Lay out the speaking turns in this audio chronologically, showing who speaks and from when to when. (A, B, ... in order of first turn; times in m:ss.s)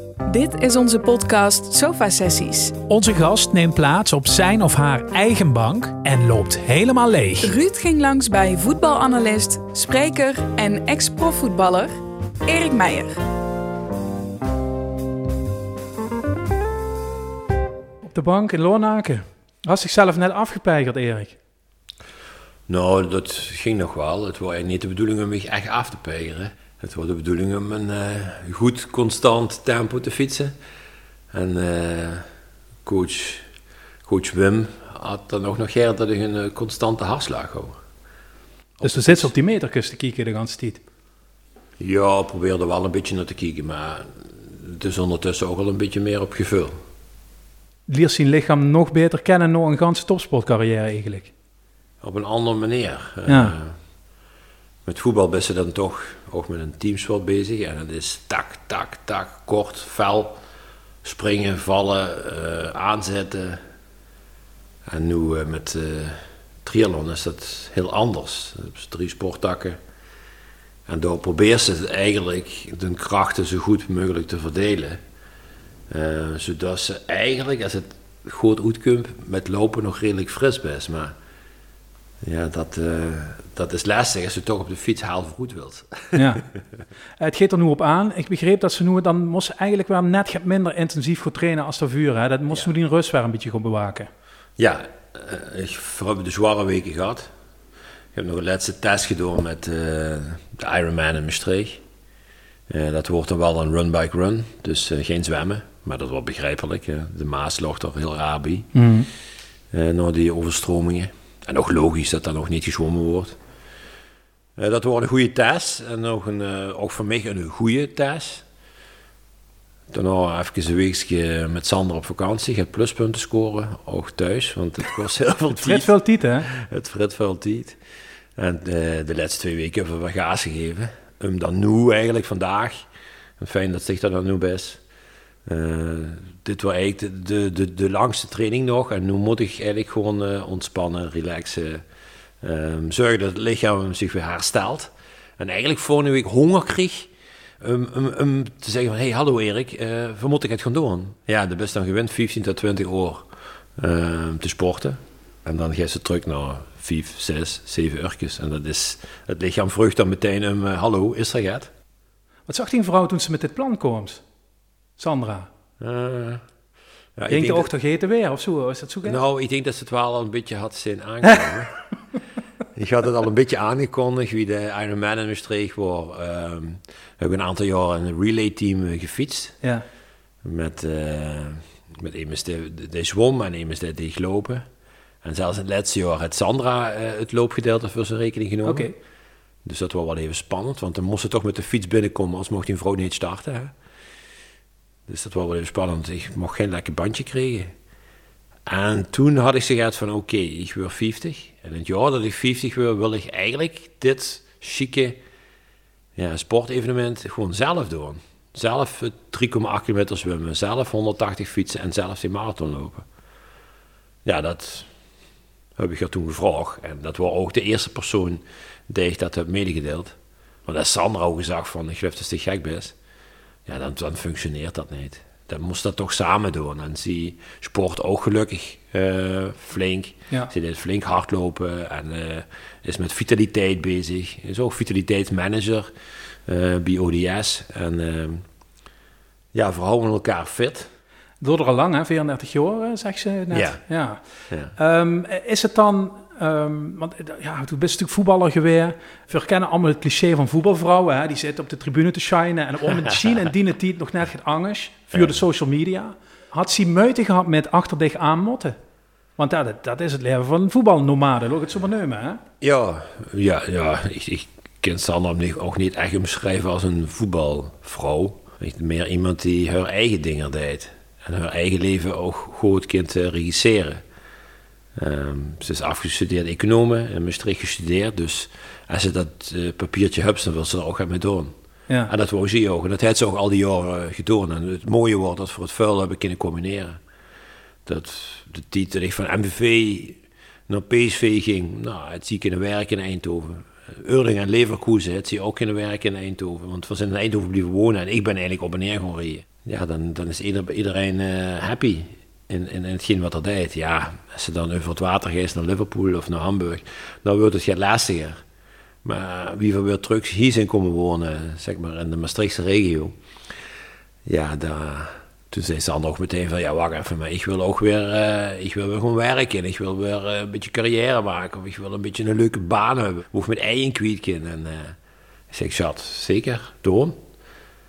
0:00.3-0:02.8 A
0:02.9-0:07.6 B
0:07.4-0:11.9 A
0:12.4-0:13.2 A
0:18.1-0:21.4 B
0:22.7-0:30.5 C
0:31.3-0:32.2 C
0:32.8-0:33.5 C
0:34.0-0:37.8 C
0:38.8-0:39.3 C
0:38.8-0:40.8 B
0:41.8-0:46.8 C
0:47.9-0:51.3 B
0:52.0-0:53.8 C
0:53.3-0:53.6 B
0:54.8-1:00.4 C
1:01.0-1:03.6 C
1:04.9-1:09.8 C
1:10.9-1:15.0 C
1:15.9-1:21.1 C
1:22.2-1:26.6 C
1:26.2-1:26.4 B
1:27.2-1:34.1 B
1:34.6-1:37.3 C
1:38.1-1:41.8 C
1:42.7-1:48.8 C
1:48.7-1:49.1 B
1:49.7-1:53.4 C
1:54.6-1:58.4 C
1:59.9-2:07.8 C
2:05.5-2:06.5 B
2:08.4-2:12.8 C
2:13.4-2:14.8 C
2:15.5-2:21.8 C
2:22.4-2:41.7 C
2:42.5-2:44.2 B
2:45.0-2:45.5 B
2:45.8-2:46.4 C
2:47.2-2:47.7 C
2:47.3-2:49.2 B
2:49.0-2:51.8 C
2:52.8-2:59.6 C
3:00.4-3:04.7 C
3:05.2-3:08.9 C
3:08.6-3:08.9 B
3:09.6-3:13.7 C
3:15.1-3:17.7 C
3:18.7-3:25.2 C
3:26.2-3:33.1 C
3:34.2-3:34.9 C
3:35.8-3:42.9 C
3:43.7-3:55.9 C
3:56.5-3:58.4 C
3:59.5-4:00.9 C
4:01.4-4:18.8 B
4:03.5-4:03.8 C
4:04.5-4:04.7 C
4:13.0-4:13.4 C
4:15.1-4:15.4 C
4:19.4-4:22.4 B
4:22.6-4:34.0 C
4:35.0-4:41.5 C
4:42.1-4:47.0 C
4:47.8-5:08.4 C
5:09.0-5:13.1 C
5:14.2-5:25.0 C
5:25.5-5:27.2 C